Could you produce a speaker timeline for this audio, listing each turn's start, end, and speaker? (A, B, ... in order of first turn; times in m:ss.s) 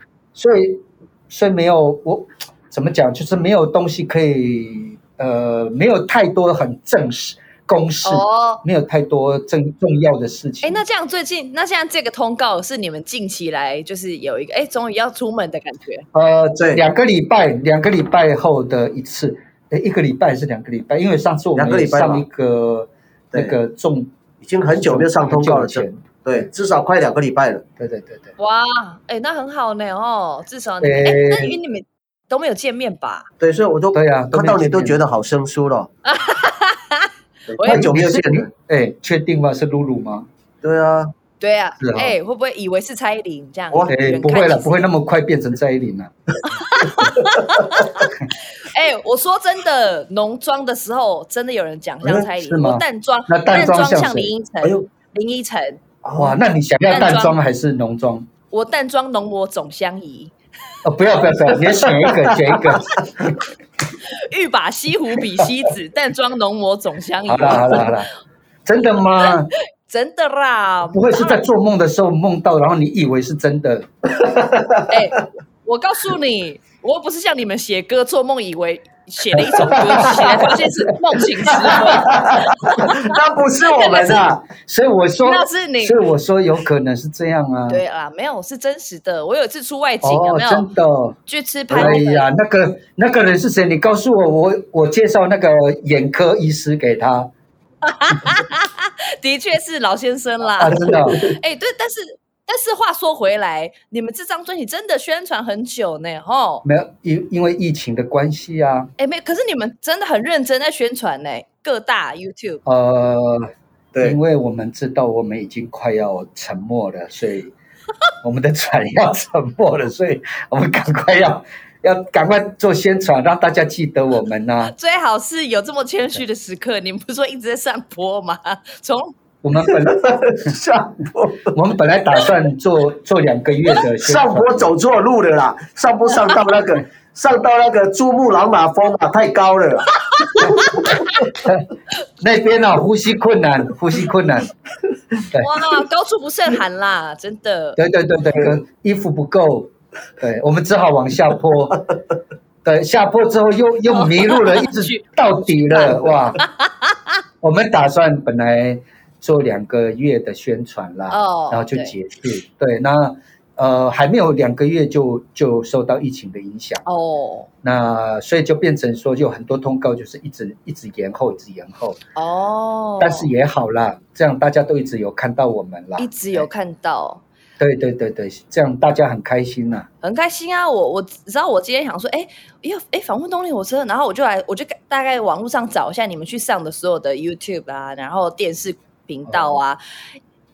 0:00.4-0:10.8 A
0:08.0-0:08.6 B
0:10.6-0:16.0 B
0:16.1-0:26.5 A
0:21.5-0:22.3 C
0:23.3-0:23.6 C
0:24.4-0:27.6 C
0:27.8-0:28.3 A
0:28.4-0:33.3 B
0:30.8-0:31.6 A
0:33.4-0:35.9 C
0:33.9-0:35.0 A
0:36.0-0:37.9 B
0:37.5-0:38.5 C
0:37.6-0:40.3 A
0:40.6-0:41.1 C
0:41.4-0:44.9 B
0:41.8-0:42.2 A
0:43.7-0:44.0 C
0:43.9-0:46.1 A
0:46.5-0:55.8 B
0:52.0-0:52.3 C
0:52.4-0:54.3 A
0:54.6-0:54.9 C
0:56.0-0:56.4 C
0:56.2-0:58.3 A
0:56.9-0:57.4 B
0:58.5-1:00.3 B
1:00.8-1:03.3 A
1:01.8-1:02.9 C
1:04.1-1:08.0 B
1:07.3-1:08.1 A
1:08.6-1:09.5 A
1:09.2-1:11.5 B
1:10.9-1:13.9 A
1:14.2-1:14.9 C
1:14.9-1:23.0 B
1:19.4-1:20.2 A
1:19.9-1:20.4 C
1:21.6-1:24.4 C
1:23.6-1:24.3 B
1:24.4-1:27.8 A
1:25.2-1:26.0 B
1:27.7-1:30.7 B
1:30.0-1:31.2 A
1:31.3-1:32.3 B
1:31.7-1:32.0 C
1:31.7-1:37.3 A
1:37.8-1:46.6 B
1:40.6-1:41.2 A
1:40.8-1:41.4 C
1:46.6-1:48.9 A
1:49.0-1:52.6 B
1:52.6-1:53.5 A
1:53.9-1:54.2 C
1:54.0-1:57.5 A
1:58.2-2:04.7 A
2:04.7-2:09.2 B
2:09.4-2:10.5 A
2:09.7-2:11.6 C
2:11.5-2:14.6 A
2:14.0-2:19.9 C
2:20.2-2:20.9 B
2:21.3-2:21.7 A
2:22.2-2:24.5 A
2:25.4-2:27.8 B
2:27.8-2:31.8 A
2:32.6-2:36.4 A
2:33.8-2:36.9 B
2:37.4-2:46.8 A
2:41.1-2:42.0 B
2:46.8-2:47.5 B
2:47.6-2:52.0 A
2:52.2-2:53.3 B
2:53.0-2:56.5 A
2:56.0-2:57.2 B
2:57.6-2:59.9 A
3:00.0-3:09.8 B
3:09.3-3:09.6 A